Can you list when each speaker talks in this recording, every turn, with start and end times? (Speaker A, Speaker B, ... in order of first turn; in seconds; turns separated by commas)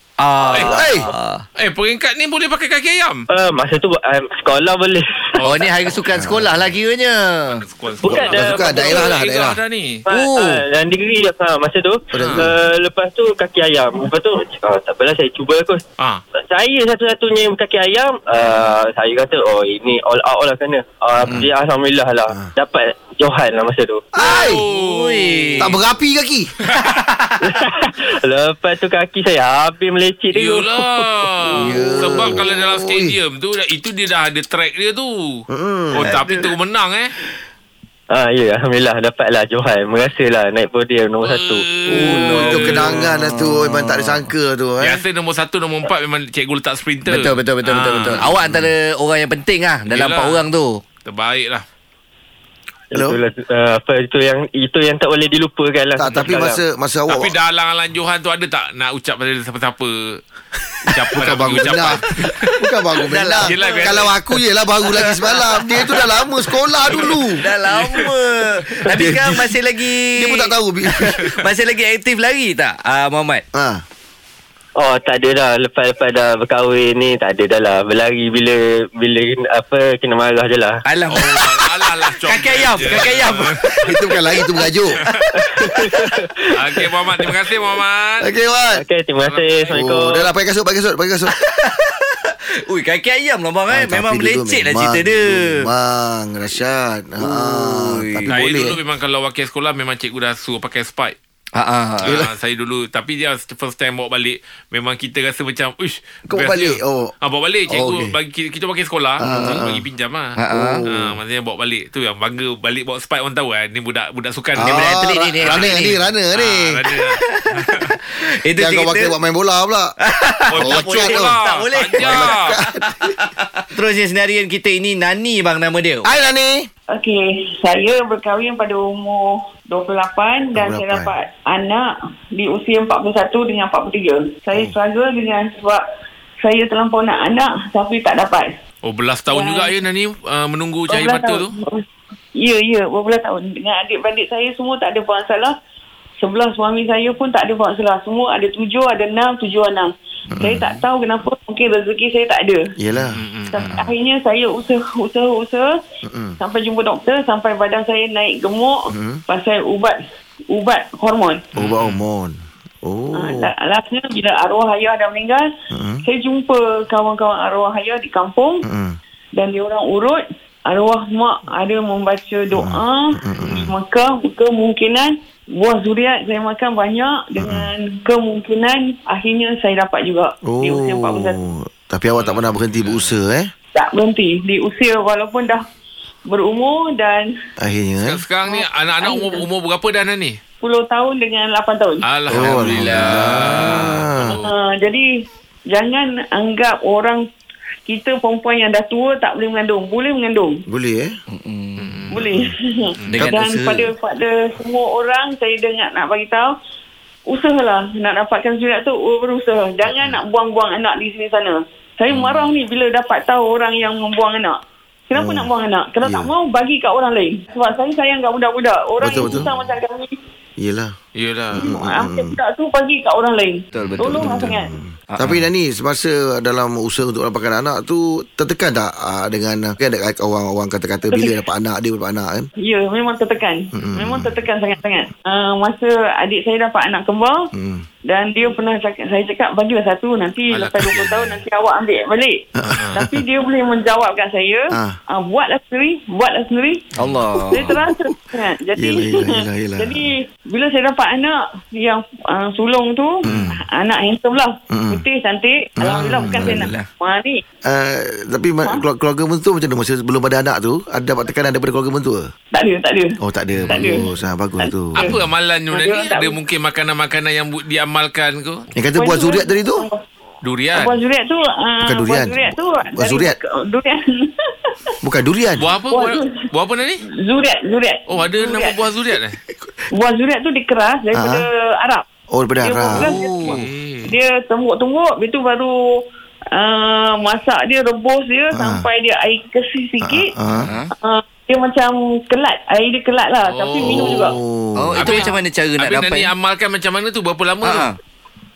Speaker A: 0.2-1.4, Speaker B: 0.5-0.9, Speaker C: 0.6-1.1, Speaker B: 1.6-3.2, Speaker D: 3.3-5.4, Speaker B: 5.3-5.6, Speaker A: 5.4-7.6, Speaker C: 6.1-6.7, Speaker B: 7.5-10.0, Speaker D: 8.0-9.2, Speaker C: 8.1-9.6, Speaker D: 10.1-15.8, Speaker A: 10.1-10.6, Speaker C: 12.1-12.5, Speaker B: 12.2-12.4, Speaker D: 16.4-24.1, Speaker C: 24.1-24.6, Speaker B: 24.2-25.7, Speaker A: 24.2-25.7, Speaker C: 25.6-26.5, Speaker A: 26.8-27.4, Speaker D: 27.4-31.0, Speaker B: 30.3-37.1, Speaker C: 31.5-33.2, Speaker A: 31.5-32.4, Speaker C: 35.5-36.1, Speaker A: 36.0-36.5, Speaker D: 38.1-41.7, Speaker B: 41.2-43.0, Speaker A: 41.9-44.2, Speaker C: 41.9-45.0, Speaker B: 44.8-48.3, Speaker A: 47.1-50.8, Speaker B: 49.9-50.4, Speaker B: 51.0-51.6, Speaker D: 52.9-56.6, Speaker C: 56.0-57.3, Speaker B: 57.1-60.2, Speaker B: 60.9-62.5, Speaker C: 61.1-67.5, Speaker A: 63.0-64.0, Speaker B: 63.4-64.1, Speaker A: 64.9-66.2, Speaker B: 66.9-68.1, Speaker A: 67.4-73.4, Speaker C: 68.9-69.5, Speaker C: 70.1-71.3, Speaker C: 73.5-73.8, Speaker D: 74.8-80.8, Speaker A: 80.8-86.2, Speaker B: 81.1-83.6, Speaker C: 83.8-85.0, Speaker D: 85.5-86.2, Speaker B: 86.5-88.3, Speaker C: 88.2-88.8, Speaker D: 88.8-90.2, Speaker B: 89.2-89.8, Speaker C: 89.7-91.3, Speaker A: 91.3-95.7, Speaker C: 93.7-98.8, Speaker A: 97.2-98.3, Speaker B: 98.3-101.2, Speaker A: 101.5-102.1, Speaker B: 102.0-110.3, Speaker C: 102.0-102.3, Speaker C: 106.3-107.1, Speaker C: 107.7-108.1, Speaker C: 109.2-109.8, Speaker A: 109.2-109.6, Speaker A: 110.4-110.8, Speaker C: 110.5-111.2, Speaker B: 110.9-117.9, Speaker C: 114.6-116.8, Speaker A: 114.6-116.0, Speaker A: 116.9-119.1, Speaker C: 118.5-119.9, Speaker A: 120.0-126.1, Speaker B: 120.5-122.5, Speaker C: 120.5-121.3, Speaker C: 122.0-123.3, Speaker C: 126.0-126.7, Speaker E: 126.9-135.8, Speaker C: 130.5-131.1, Speaker E: 136.4-138.6, Speaker B: 138.8-141.5, Speaker E: 139.3-139.8, Speaker E: 140.9-145.5, Speaker E: 146.2-152.7, Speaker C: 150.3-150.8, Speaker C: 152.8-153.2, Speaker B: 153.1-153.9, Speaker E: 153.5-155.8, Speaker C: 156.0-156.4, Speaker E: 156.4-161.5, Speaker C: 158.9-159.2, Speaker C: 161.5-163.5, Speaker B: 161.6-162.0, Speaker E: 163.2-165.5, Speaker C: 165.7-166.0, Speaker E: 166.0-168.7, Speaker C: 168.6-169.0, Speaker E: 169.3-181.4, Speaker C: 172.5-173.7, Speaker C: 177.4-177.7, Speaker C: 180.4-183.5, Speaker B: 182.2-183.1, Speaker E: 183.7-185.6, Speaker E: 186.3-187.3, Speaker C: 187.6-188.2, Speaker B: 188.0-190.4, Speaker E: 188.4-189.4, Speaker E: 190.6-192.0, Speaker B: 192.0-194.5, Speaker C: 192.3-194.4, Speaker A: 192.3-193.9, Speaker E: 194.3-195.1, Speaker E: 195.7-197.2, Speaker E: 197.8-200.6, Speaker C: 200.7-201.2, Speaker A: 201.3-202.0, Speaker B: 201.8-202.3, Speaker E: 202.1-206.5, Speaker C: 202.2-202.5, Speaker A: 203.1-203.9, Speaker E: 207.3-220.1, Speaker C: 215.1-215.5, Speaker C: 216.0-216.3, Speaker C: 219.0-219.5, Speaker C: 220.6-220.9, Speaker B: 221.1-221.7, Speaker C: 221.5-222.4, Speaker E: 221.5-224.7, Speaker A: 223.7-224.4, Speaker C: 224.1-232.5, Speaker A: 225.1-225.4, Speaker E: 231.1-231.3, Speaker E: 232.6-237.5, Speaker C: 233.7-234.4, Speaker C: 237.5-237.8, Speaker E: 238.1-246.9, Speaker B: 240.5-241.4, Speaker C: 242.6-243.2, Speaker B: 242.8-243.0, Speaker C: 244.7-245.0, Speaker A: 247.0-247.7, Speaker E: 247.5-257.4, Speaker C: 247.5-247.9, Speaker C: 248.8-250.1, Speaker C: 253.2-253.6, Speaker C: 254.7-255.0, Speaker C: 255.8-256.7, Speaker A: 256.4-256.9, Speaker C: 257.6-262.3, Speaker E: 262.5-264.1, Speaker C: 263.2-265.1, Speaker B: 263.6-263.8, Speaker E: 264.6-266.4, Speaker B: 265.0-268.7, Speaker C: 268.7-269.9, Speaker E: 269.0-270.0, Speaker B: 270.4-271.0, Speaker E: 270.7-274.9, Speaker C: 271.8-273.4, Speaker C: 275.0-275.7, Speaker B: 275.6-277.0, Speaker E: 275.9-276.3, Speaker E: 277.2-278.8, Speaker B: 278.1-279.4, Speaker E: 279.9-282.0, Speaker C: 281.1-281.4, Speaker C: 282.3-283.1, Speaker E: 282.6-286.0, Speaker A: 283.0-283.6, Speaker B: 283.4-284.1, Speaker E: 286.5-290.3, Speaker C: 288.5-288.9, Speaker C: 290.0-290.7, Speaker A: 290.6-290.9, Speaker E: 291.0-294.4, Speaker B: 293.4-294.4, Speaker C: 293.8-295.2, Speaker A: 294.8-296.3, Speaker B: 295.0-297.9, Speaker A: 297.6-297.9